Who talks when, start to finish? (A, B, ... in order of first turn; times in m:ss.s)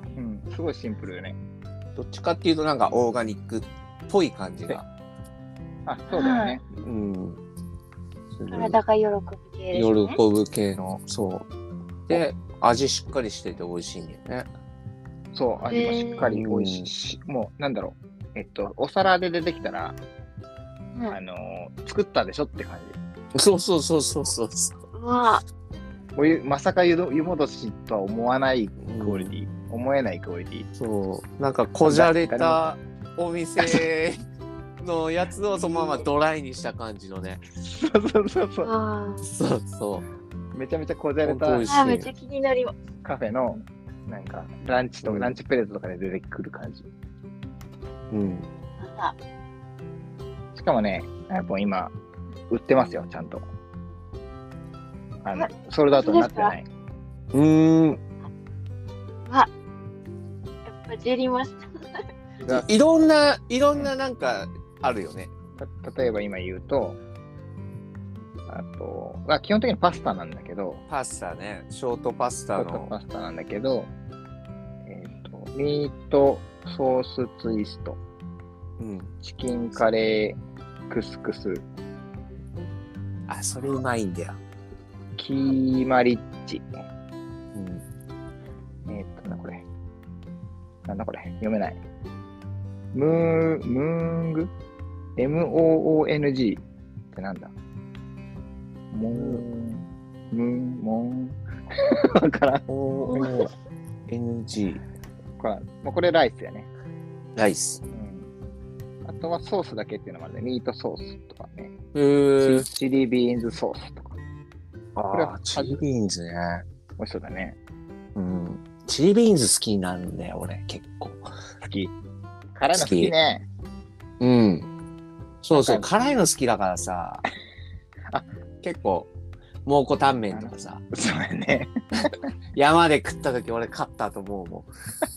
0:00.2-0:01.4 A
0:02.0-0:04.8 B
0:05.8-0:06.6 A
0:06.1-0:06.6 C
0:06.8-0:07.4 B
0:08.4-0:08.8 B
0:08.5-0:10.2 C
0:09.7-0:11.4 B
0:12.1-0:14.5 B
0:15.3-0:20.0 A
0:15.6-0:16.3 C
0:16.2-0:16.9 B
0:21.1-0:23.0 A
0:23.3-0:24.8 B
0:24.9-0:25.4 C
0:26.2-0:30.7 A
0:28.8-0:29.3 B
0:30.8-0:34.2 B
0:31.8-0:32.6 A
0:34.8-0:37.4 B
0:37.6-0:38.7 A
0:38.6-0:39.2 C
0:39.2-0:40.0 B
0:40.5-0:41.7 A
0:41.2-0:42.1 B
0:41.7-0:42.7 C
0:43.0-0:46.8 A
0:45.0-0:45.3 B
0:48.1-0:48.4 B
0:48.8-0:49.1 C
0:50.5-0:51.9 A
0:52.5-0:53.4 A
0:55.2-0:56.6 A
0:55.3-0:56.5 C
0:57.3-0:58.0 B
1:00.6-1:01.6 C
1:02.4-1:05.3 B
1:05.6-1:07.0 A
1:08.5-1:10.8 A
1:10.9-1:12.9 B
1:12.6-1:13.9 A
1:14.8-1:18.0 A
1:18.8-1:19.1 B
1:19.2-1:21.6 A
1:23.3-1:24.4 B
1:25.2-1:26.7 A
1:27.5-1:27.8 B
1:28.8-1:29.6 A
1:30.8-1:31.8 A
1:32.9-1:34.5 A
1:35.2-1:37.5 A
1:38.9-1:43.3 A
1:39.1-1:39.4 B
1:42.7-1:43.5 B
1:44.1-1:44.8 B
1:45.4-1:46.7 A
1:47.4-1:47.8 B
1:47.9-1:48.3 A
1:49.0-1:51.7 A
1:51.9-1:52.7 B
1:52.4-1:54.2 A
1:55.0-1:56.6 B
1:55.1-1:55.8 A
1:57.0-1:57.6 A
1:58.1-2:01.3 B
2:01.6-2:01.9 A
2:02.5-2:03.4 A
2:02.7-2:03.1 B
2:04.2-2:04.7 B
2:05.4-2:07.2 B
2:05.5-2:05.8 A
2:08.6-2:09.1 B
2:09.6-2:10.8 B
2:10.3-2:12.1 A
2:12.5-2:14.7 B